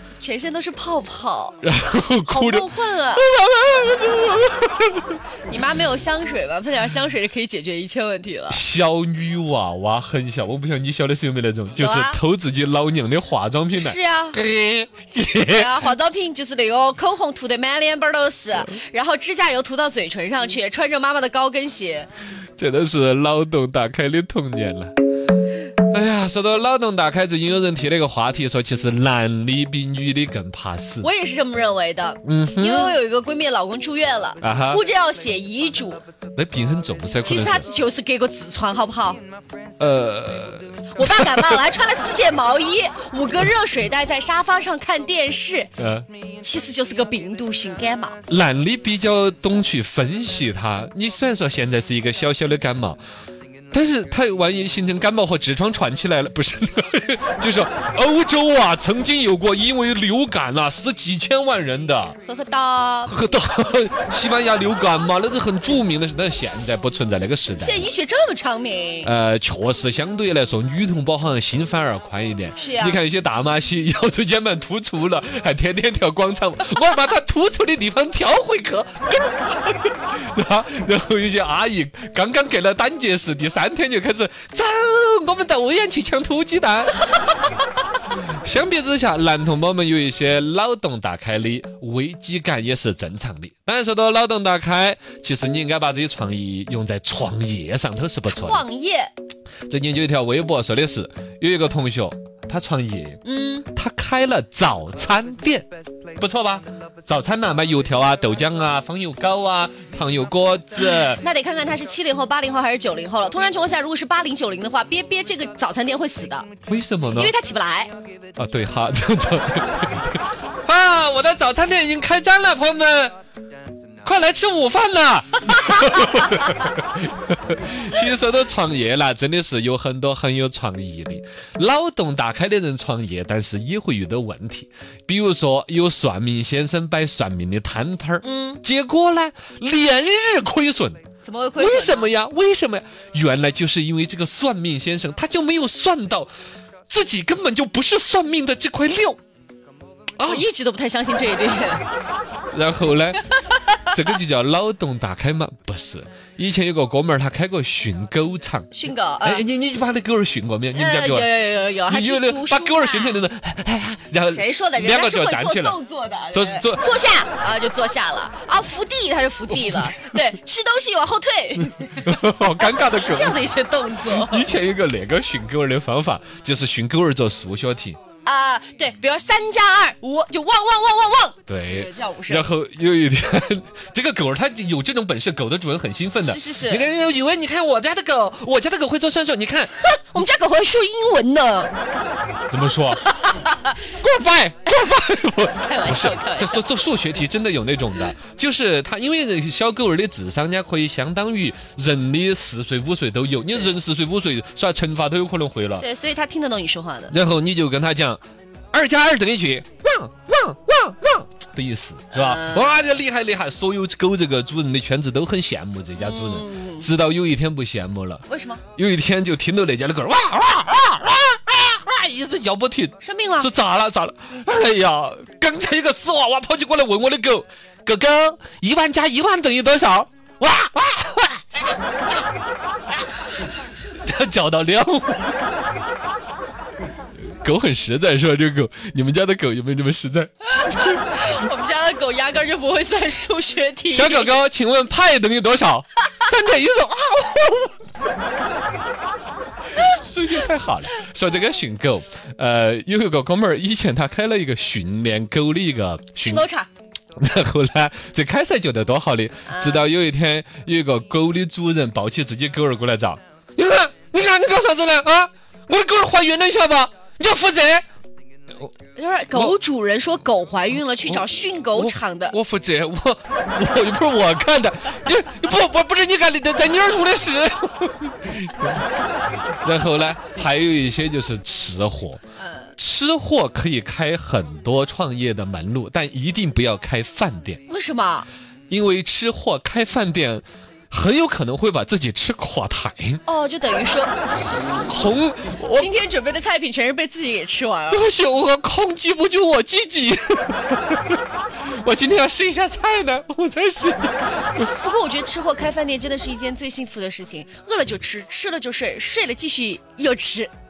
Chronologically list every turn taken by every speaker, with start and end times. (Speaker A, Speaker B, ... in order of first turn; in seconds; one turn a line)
Speaker A: 0.2-3.3
Speaker B: 1.6-5.2
Speaker A: 5.5-8.6
Speaker B: 8.5-15.9
Speaker A: 11.7-12.2
Speaker A: 13.7-14.4
Speaker A: 15.3-22.1
Speaker B: 22.6-24.9
Speaker B: 25.9-31.1
Speaker A: 31.0-36.0
Speaker B: 32.2-33.0
Speaker B: 34.4-34.8
Speaker B: 36.4-37.7
Speaker A: 37.2-39.2
Speaker B: 39.8-41.6
Speaker A: 41.0-45.7
Speaker B: 45.8-46.1
Speaker A: 46.4-48.2
Speaker B: 48.3-53.0
Speaker B: 53.7-62.2
Speaker A: 62.2-63.1
Speaker B: 63.1-67.9
Speaker A: 67.6-69.1
Speaker B: 69.0-87.0
Speaker A: 72.6-73.0
Speaker B: 88.1-98.7
Speaker A: 98.3-99.1
Speaker B: 99.7-103.2
Speaker A: 103.2-103.7
Speaker B: 103.7-105.7
Speaker B: 106.2-111.2
Speaker A: 111.1-116.5
Speaker B: 116.7-117.3
Speaker A: 117.1-117.9
Speaker B: 118.4-123.1
Speaker B: 124.0-141.0
Speaker A: 138.2-138.6
Speaker A: 141.2-142.1
Speaker B: 141.6-146.3
Speaker B: 146.9-149.2
Speaker B: 150.2-150.5
Speaker A: 150.2-151.9
Speaker B: 152.5-158.7
Speaker A: 153.5-153.8
Speaker A: 158.7-159.4
Speaker B: 159.2-161.3
Speaker A: 160.8-163.2
Speaker B: 161.8-165.8
Speaker A: 164.3-174.5
Speaker B: 166.3-166.9
Speaker B: 169.5-169.9
Speaker B: 172.0-173.4
Speaker B: 174.1-178.0
Speaker A: 178.2-182.5
Speaker B: 181.5-189.8
Speaker A: 186.2-186.9
Speaker A: 189.9-191.7
Speaker B: 192.5-193.2
Speaker A: 193.1-193.8
Speaker B: 193.9-205.8
Speaker A: 195.6-196.7
Speaker A: 205.8-207.2
Speaker B: 207.1-208.2
Speaker B: 208.7-231.7
Speaker A: 212.1-212.8
Speaker A: 216.0-216.9
Speaker A: 218.3-218.6
Speaker A: 223.0-223.5
Speaker B: 233.9-235.4
Speaker B: 237.2-241.0
Speaker A: 240.6-244.4
Speaker B: 243.9-247.8
Speaker B: 249.8-256.5
Speaker A: 256.2-256.7
Speaker B: 257.2-267.8
Speaker A: 259.5-259.9
Speaker A: 269.0-272.4
Speaker B: 269.3-269.6
Speaker B: 271.1-279.0
Speaker B: 279.6-282.2
Speaker A: 282.4-282.7
Speaker B: 282.8-287.6
Speaker A: 287.7-288.3
Speaker B: 288.7-293.2
Speaker A: 293.3-294.2
Speaker B: 294.7-295.9
Speaker A: 295.7-298.0
Speaker B: 297.9-304.7
Speaker A: 304.8-310.5